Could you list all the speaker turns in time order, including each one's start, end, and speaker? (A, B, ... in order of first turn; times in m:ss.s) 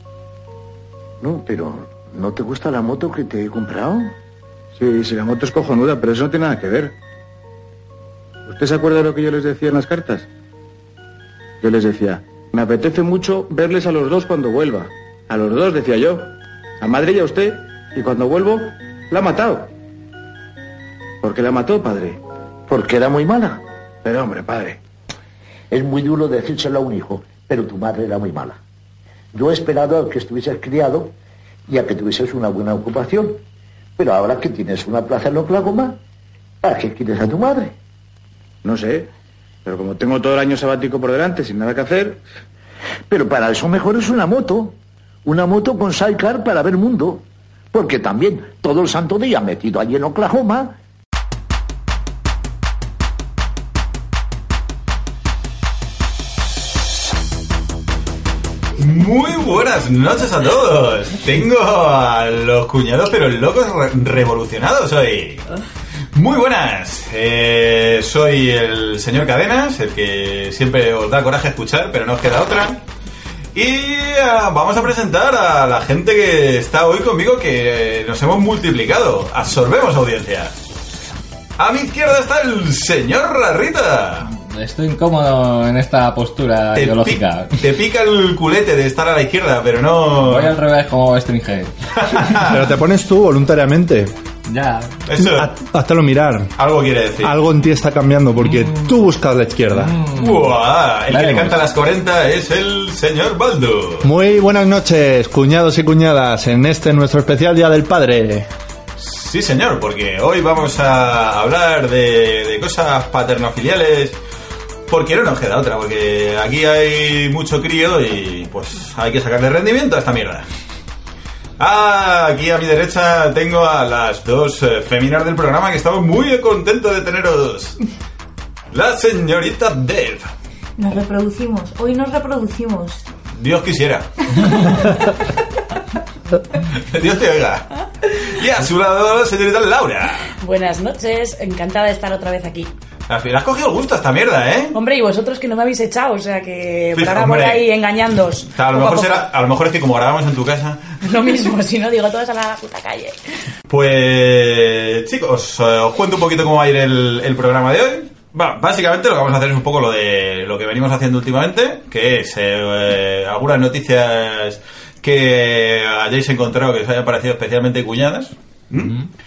0:01.2-0:04.1 A
0:04.8-0:06.9 B
0:08.5-0:10.3 B
0:11.6-0:19.7 B
0:21.2-0:22.2 B
0:22.7-0:23.6 A
0:24.0-0:24.8 B
0:25.7-0:28.6 A
0:29.3-0:31.1 A
0:31.7-0:33.4 A
0:34.0-0:36.0 A
0:36.6-0:37.8 A
0:38.6-0:39.1 B
0:39.6-0:42.2 B
0:43.1-0:50.8 A
0:58.8-1:05.4 C
1:06.1-1:12.8 C
1:13.5-1:20.5 C
1:21.6-1:24.3 C
1:24.5-1:27.5 D
1:26.8-1:30.6 C
1:30.2-1:31.7 D
1:32.0-1:32.5 C
1:32.4-1:34.1 E
1:34.5-1:34.9 D
1:35.1-1:35.5 C
1:35.2-1:36.5 E
1:36.6-1:37.4 C
1:37.2-1:39.9 E
1:39.7-1:40.6 D
1:40.2-1:44.1 C
1:41.1-1:41.6 D
1:44.0-1:48.5 E
1:49.0-1:54.2 C
1:54.9-2:00.5 C
2:01.6-2:07.8 C
2:08.7-2:10.3 C
2:10.8-2:13.0 F
2:13.4-2:14.8 C
2:16.7-2:20.4 C
2:20.4-2:22.7 G
2:23.1-2:24.8 C
2:24.7-2:29.3 G
2:27.0-2:27.7 C
2:28.5-2:30.8 C
2:31.0-2:33.2 G
2:33.7-2:49.0 C